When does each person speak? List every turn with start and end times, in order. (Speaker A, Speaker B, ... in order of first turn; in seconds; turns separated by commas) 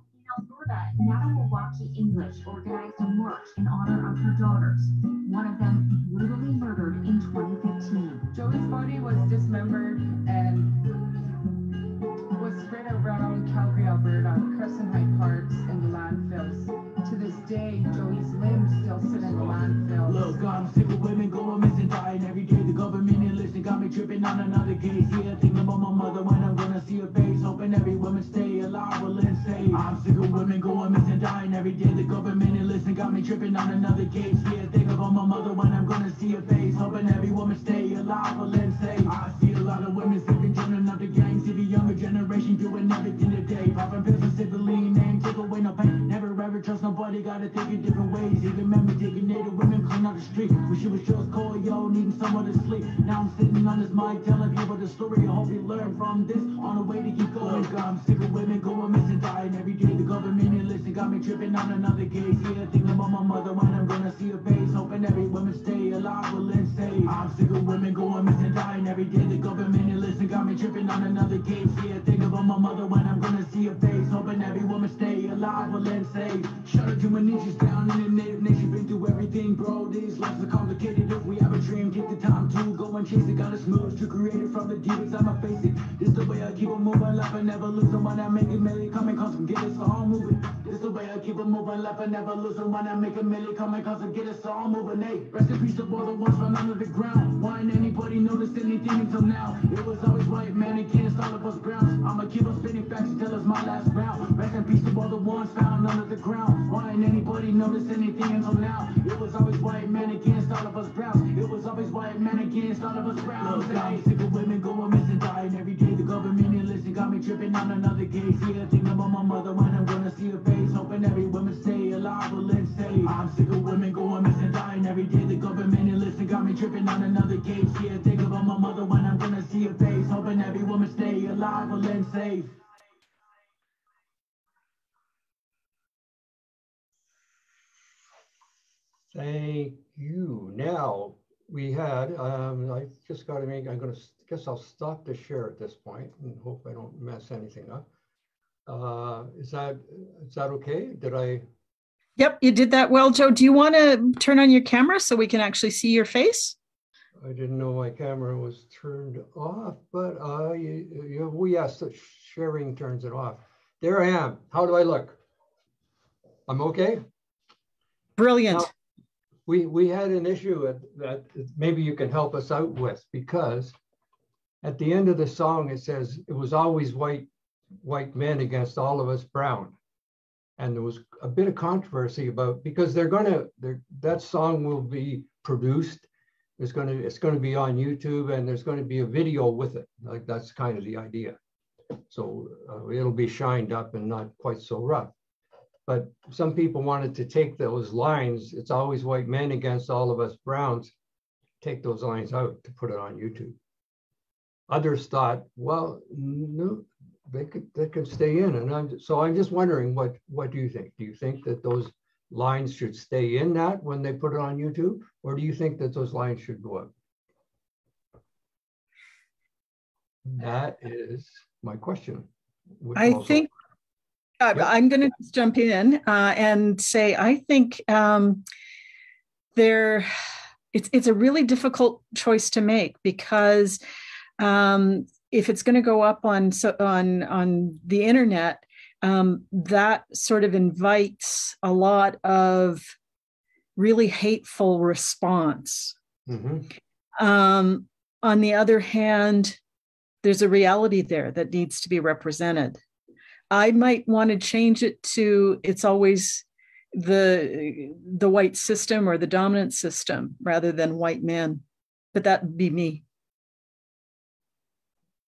Speaker A: 0.1-8.3, Speaker B: 8.3-20.7, Speaker C: 20.0-132.6, Speaker B: 113.4-114.0, Speaker D: 139.1-147.9, Speaker D: 148.7-151.4, Speaker E: 152.2-156.6, Speaker D: 157.2-165.2, Speaker D: 166.5-167.0, Speaker E: 168.2-168.7, Speaker D: 169.5-173.8, Speaker D: 174.6-177.3, Speaker D: 177.8-179.8, Speaker D: 180.6-191.4, Speaker D: 192.0-195.1, Speaker D: 195.9-200.9, Speaker D: 201.6-203.6, Speaker D: 204.7-216.9, Speaker D: 220.3-222.3, Speaker D: 222.8-223.5, Speaker E: 223.0-223.5, Speaker E: 224.4-228.4, Speaker E: 229.6-230.1, Speaker E: 230.7-233.8, Speaker E: 234.4-242.9, Speaker E: 243.8-246.0, Speaker D: 246.3-246.7, Speaker E: 247.2-249.6, Speaker E: 250.2-252.8, Speaker E: 253.5-263.0